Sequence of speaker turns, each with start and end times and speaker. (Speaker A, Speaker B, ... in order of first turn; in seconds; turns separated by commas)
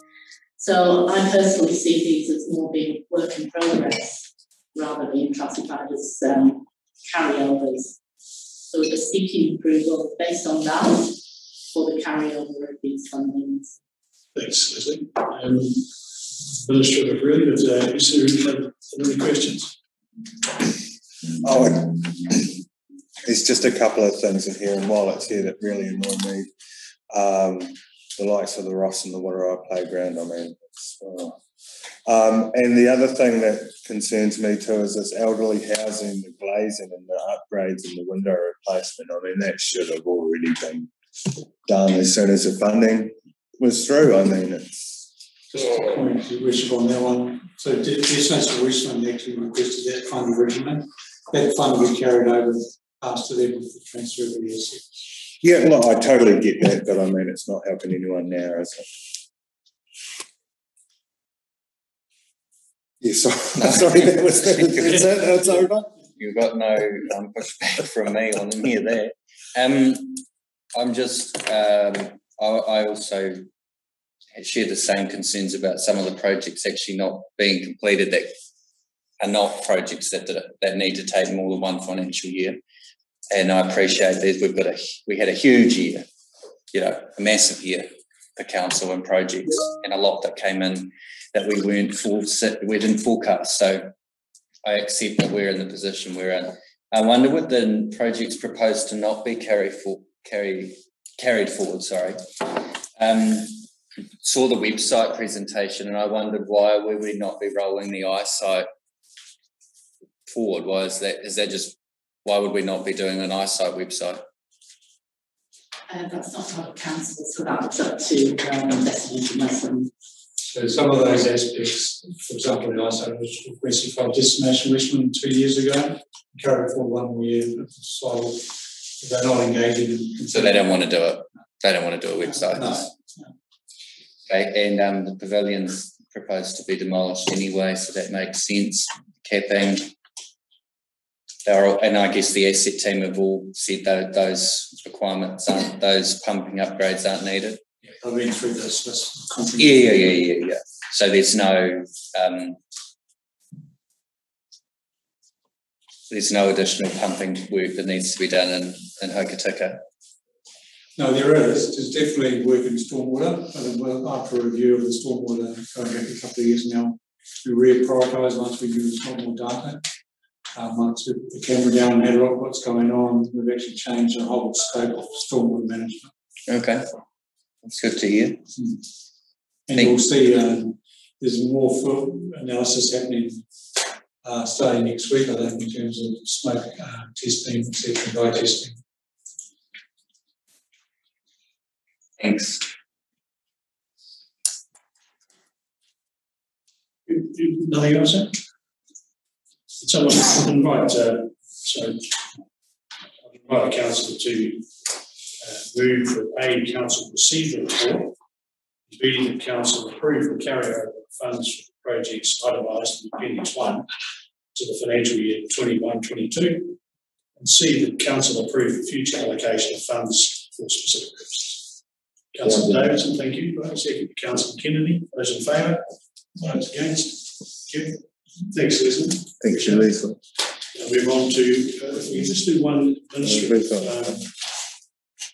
Speaker A: 0.6-8.0, Speaker A: 8.6-13.8, Speaker B: 14.3-15.9, Speaker B: 16.6-19.7, Speaker C: 21.4-22.5, Speaker C: 23.2-26.5, Speaker C: 27.1-31.4, Speaker C: 32.0-40.9, Speaker C: 41.6-45.0, Speaker D: 45.5-55.1, Speaker C: 55.4-58.9, Speaker C: 63.0-65.9, Speaker E: 63.6-65.0, Speaker E: 66.2-70.2, Speaker E: 70.8-73.5, Speaker E: 74.3-78.3, Speaker E: 79.2-82.6, Speaker E: 83.3-86.1, Speaker E: 86.7-93.9, Speaker E: 94.6-103.6, Speaker E: 104.2-108.7, Speaker E: 110.3-114.2, Speaker A: 115.9-119.9, Speaker D: 120.5-130.7, Speaker E: 130.3-132.9, Speaker D: 132.5-133.3, Speaker E: 134.3-139.9, Speaker E: 141.4-147.6, Speaker D: 147.8-150.1, Speaker E: 149.6-152.6, Speaker E: 156.1-159.8, Speaker D: 161.0-169.8, Speaker D: 170.5-176.1, Speaker E: 176.5-176.9, Speaker E: 177.6-178.4, Speaker D: 179.7-183.4, Speaker D: 184.2-188.8, Speaker E: 192.2-192.6, Speaker B: 197.1-198.4, Speaker B: 199.8-202.1, Speaker B: 203.2-204.7, Speaker B: 205.4-208.2, Speaker B: 208.9-213.9, Speaker B: 214.5-216.8, Speaker B: 217.3-221.6, Speaker B: 222.3-225.8, Speaker B: 226.4-229.9, Speaker C: 229.4-230.2, Speaker B: 230.7-234.3, Speaker C: 233.2-234.0